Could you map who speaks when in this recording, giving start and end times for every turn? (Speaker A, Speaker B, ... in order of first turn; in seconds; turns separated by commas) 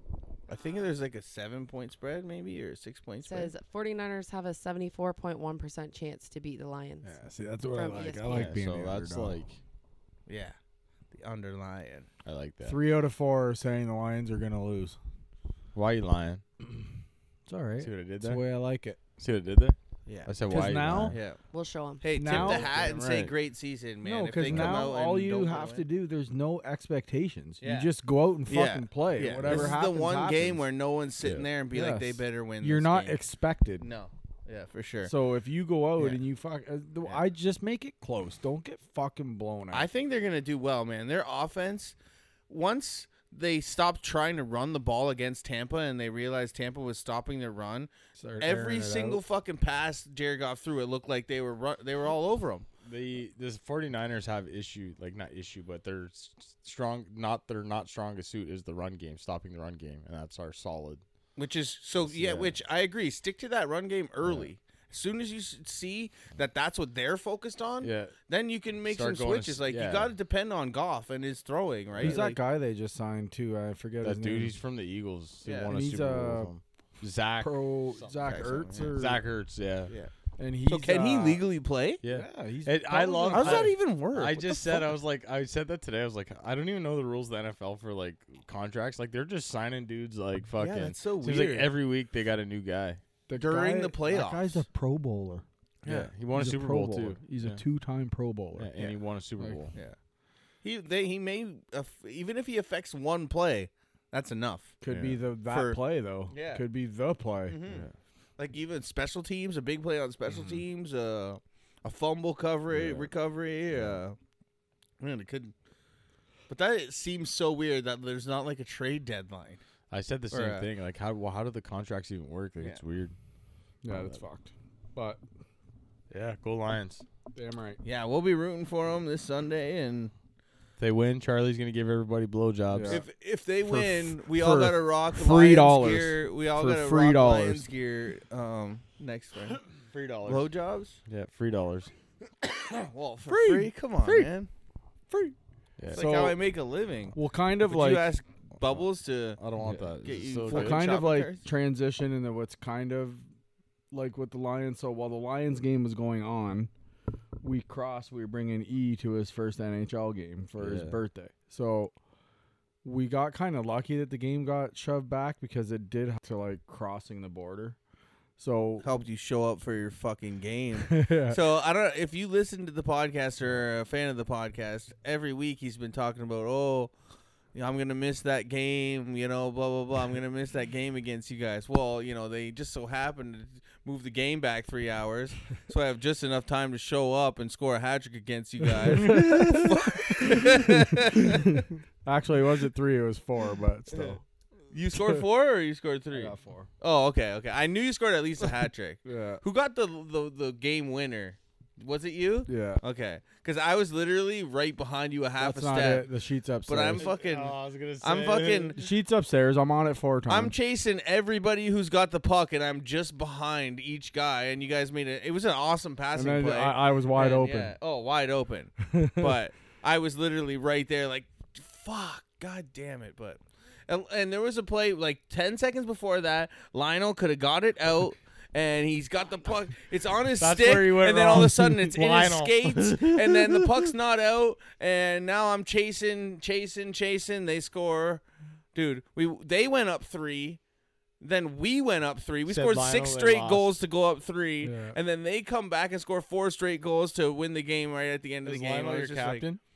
Speaker A: 0.5-3.5, Speaker B: 3.2-7.2, Speaker C: 7.0-9.4, Speaker B: 7.7-8.5, Speaker D: 8.2-9.6, Speaker A: 10.3-10.6, Speaker A: 11.1-12.1, Speaker D: 12.2-12.8, Speaker C: 12.7-15.0, Speaker D: 15.7-16.4, Speaker C: 17.5-19.0, Speaker D: 17.8-18.4, Speaker D: 19.2-21.2, Speaker A: 20.1-20.3, Speaker C: 20.5-21.2, Speaker A: 21.1-21.4, Speaker B: 21.5-22.1, Speaker A: 22.0-25.9, Speaker C: 22.1-23.3, Speaker D: 22.3-23.1, Speaker C: 24.0-30.6, Speaker D: 24.4-24.9, Speaker A: 27.6-27.9, Speaker A: 28.5-33.2, Speaker D: 29.4-29.8, Speaker D: 31.2-31.5, Speaker C: 31.7-33.9, Speaker A: 33.8-35.1, Speaker C: 35.0-39.9, Speaker A: 39.7-42.0, Speaker A: 42.5-52.7, Speaker C: 48.2-49.2, Speaker D: 52.8-61.0, Speaker A: 61.4-72.4, Speaker D: 62.0-62.6, Speaker D: 64.2-64.5, Speaker D: 67.8-68.2, Speaker D: 68.9-70.1, Speaker D: 72.0-72.2, Speaker C: 72.0-74.6, Speaker D: 74.0-78.1, Speaker A: 75.5-75.7, Speaker C: 75.7-76.5, Speaker C: 77.4-79.2, Speaker A: 78.2-79.0, Speaker D: 78.9-79.9, Speaker C: 80.4-81.4, Speaker A: 80.7-82.0, Speaker D: 82.0-93.0, Speaker C: 82.0-84.1, Speaker A: 83.3-84.9, Speaker A: 90.6-91.7, Speaker C: 93.3-95.5, Speaker A: 93.4-94.6, Speaker A: 95.8-96.1, Speaker D: 95.8-97.6, Speaker C: 96.3-98.8, Speaker D: 98.6-99.7, Speaker A: 100.6-104.8, Speaker C: 104.8-107.6, Speaker D: 104.9-105.2, Speaker A: 105.5-106.7, Speaker A: 107.5-107.9, Speaker D: 107.7-108.0, Speaker A: 108.4-114.2, Speaker D: 110.3-110.6, Speaker D: 112.7-113.1, Speaker D: 113.7-114.0, Speaker A: 115.0-115.5, Speaker A: 116.5-119.6, Speaker D: 119.9-123.2, Speaker A: 120.3-120.7, Speaker C: 123.8-125.2, Speaker D: 123.9-124.2, Speaker D: 126.1-127.0, Speaker C: 127.3-127.8, Speaker A: 127.8-130.1, Speaker D: 130.8-133.0, Speaker C: 132.7-133.1, Speaker A: 132.9-139.6, Speaker C: 133.6-137.7, Speaker D: 139.9-140.5, Speaker A: 140.2-141.0, Speaker D: 141.1-141.9, Speaker A: 142.4-144.5, Speaker C: 143.3-144.3, Speaker C: 145.1-145.4, Speaker D: 145.8-146.1, Speaker C: 145.9-146.4, Speaker A: 145.9-151.4, Speaker C: 147.1-148.2, Speaker D: 149.4-150.9, Speaker C: 150.5-153.3, Speaker C: 153.9-156.7, Speaker C: 157.4-161.9, Speaker D: 160.6-161.0, Speaker C: 162.8-167.8, Speaker C: 168.4-168.9, Speaker A: 168.8-176.9, Speaker C: 170.8-171.4, Speaker A: 177.6-191.7, Speaker C: 188.8-194.2, Speaker A: 193.9-194.2, Speaker A: 194.7-206.1, Speaker C: 194.9-195.2, Speaker C: 196.1-196.7, Speaker C: 199.1-199.4, Speaker C: 202.5-202.8, Speaker C: 205.4-207.1, Speaker A: 206.7-208.8, Speaker D: 207.0-208.8, Speaker C: 208.8-210.6, Speaker A: 210.3-238.2, Speaker C: 216.2-217.8, Speaker C: 218.9-219.3, Speaker D: 230.4-233.8, Speaker C: 231.3-231.9, Speaker A: 238.8-240.6, Speaker A: 241.2-249.5, Speaker D: 242.5-243.7, Speaker C: 244.6-245.0, Speaker D: 248.4-249.6